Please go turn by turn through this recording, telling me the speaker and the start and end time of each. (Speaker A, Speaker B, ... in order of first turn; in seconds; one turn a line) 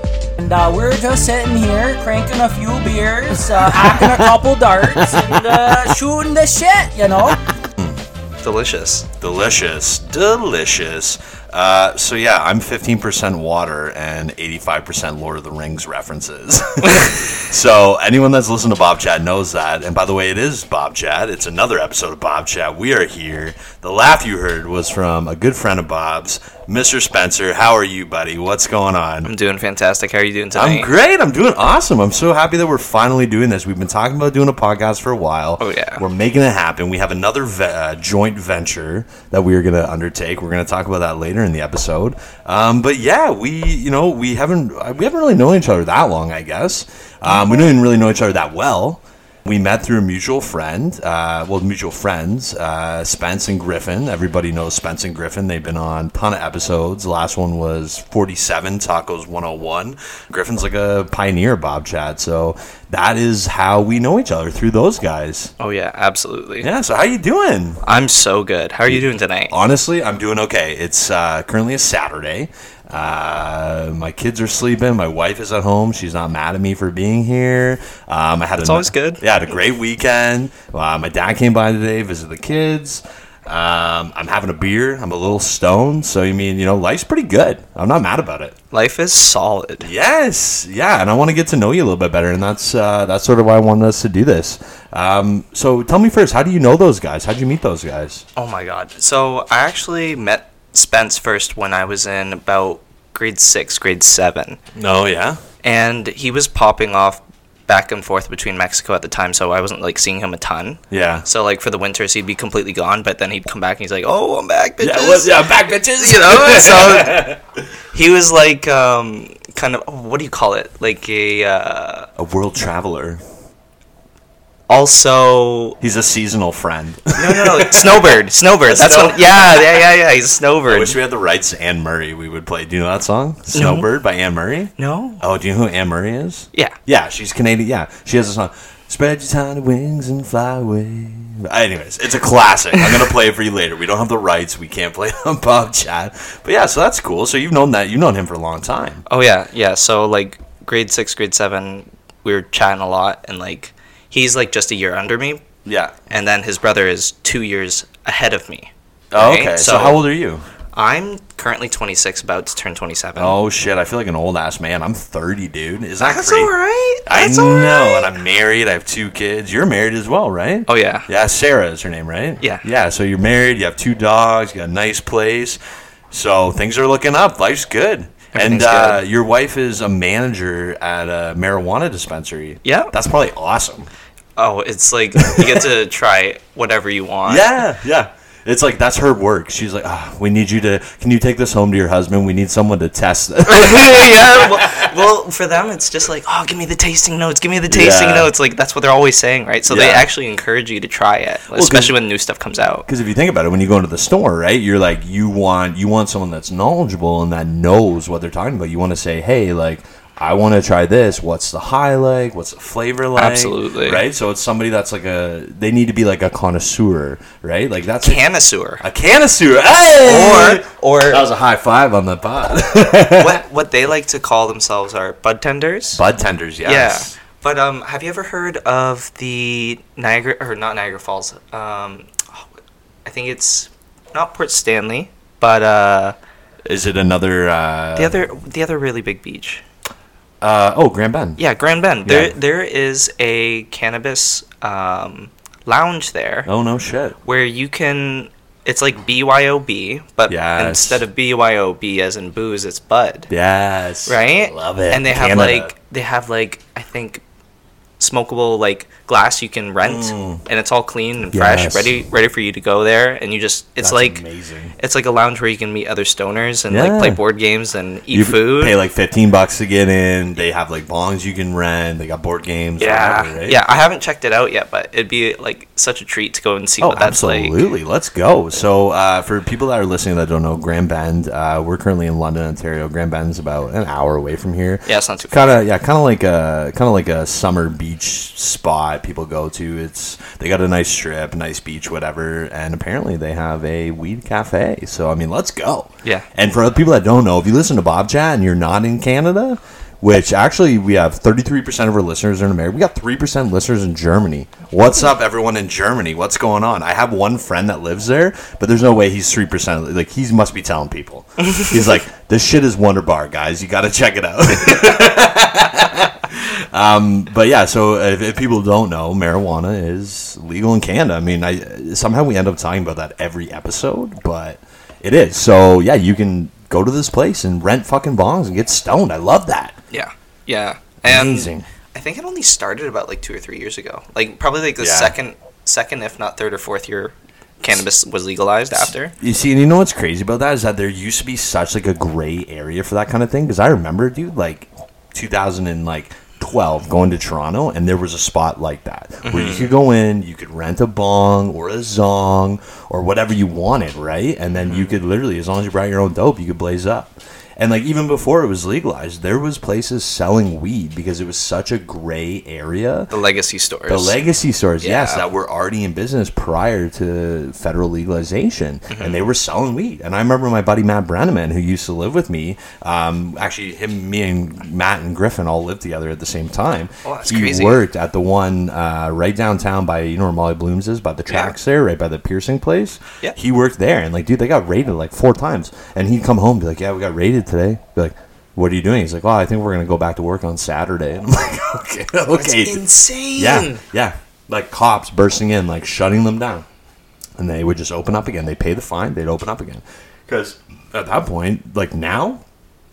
Speaker A: 0.4-7.4
Speaker B: 3.6-5.8
Speaker B: 7.6-8.0
Speaker C: 8.4-9.1
Speaker B: 9.2-29.3
Speaker C: 29.2-30.9
Speaker B: 30.5-65.5
Speaker C: 35.6-36.0
Speaker C: 47.3-47.6
Speaker C: 65.6-66.7
Speaker B: 66.6-67.8
Speaker C: 67.8-69.5
Speaker B: 68.9-88.5
Speaker C: 78.6-79.2
Speaker C: 88.7-89.9
Speaker B: 89.8-98.2
Speaker C: 98.3-104.6
Speaker B: 104.7-105.4
Speaker C: 105.6-117.3
Speaker B: 110.9-111.2
Speaker B: 114.8-117.4
Speaker C: 117.9-122.1
Speaker B: 122.2-123.2
Speaker C: 124.7-125.8
Speaker B: 125.8-129.8
Speaker C: 127.2-131.0
Speaker B: 130.7-149.0
Speaker C: 133.5-133.9
Speaker C: 134.8-135.2
Speaker C: 149.1-155.4
Speaker B: 155.6-156.0
Speaker C: 156.1-160.0
Speaker B: 159.1-160.4
Speaker C: 160.7-163.3
Speaker B: 163.2-166.5
Speaker C: 166.0-168.1
Speaker B: 167.1-175.6
Speaker C: 170.7-171.1
Speaker C: 172.4-172.7
Speaker B: 176.1-183.9
Speaker C: 178.3-179.0
Speaker C: 182.6-182.9
Speaker C: 184.4-187.6
Speaker B: 185.2-185.7
Speaker B: 187.2-194.9
Speaker C: 193.4-202.9
Speaker B: 197.7-198.3
Speaker B: 199.7-200.1
Speaker B: 201.5-201.9
Speaker B: 202.8-218.2
Speaker C: 213.1-214.0
Speaker C: 218.0-218.8
Speaker B: 218.8-223.4
Speaker C: 220.0-221.2
Speaker C: 223.1-226.0
Speaker B: 225.9-227.1
Speaker C: 226.6-232.4
Speaker C: 233.0-236.2
Speaker B: 236.6-238.2
Speaker C: 237.9-239.6
Speaker B: 240.4-241.4
Speaker C: 241.4-246.5
Speaker B: 242.1-242.3
Speaker B: 246.4-247.2
Speaker C: 247.2-253.3
Speaker B: 250.3-251.0
Speaker B: 253.3-255.7
Speaker C: 254.1-257.2
Speaker C: 258.0-264.2
Speaker B: 259.8-260.4
Speaker B: 261.3-262.0
Speaker B: 263.8-264.7
Speaker C: 264.8-268.8
Speaker B: 266.7-267.2
Speaker B: 268.1-273.6
Speaker C: 272.8-277.6
Speaker B: 276.8-329.8
Speaker C: 284.9-285.6
Speaker C: 329.9-339.1
Speaker B: 331.0-331.6
Speaker B: 334.8-335.1
Speaker B: 338.8-363.1
Speaker C: 349.2-349.7
Speaker C: 354.6-354.9
Speaker C: 363.1-364.2
Speaker B: 363.9-392.8
Speaker C: 364.8-365.2
Speaker C: 368.9-369.2
Speaker C: 377.0-377.8
Speaker C: 392.3-393.8
Speaker B: 393.4-396.6
Speaker B: 397.4-402.4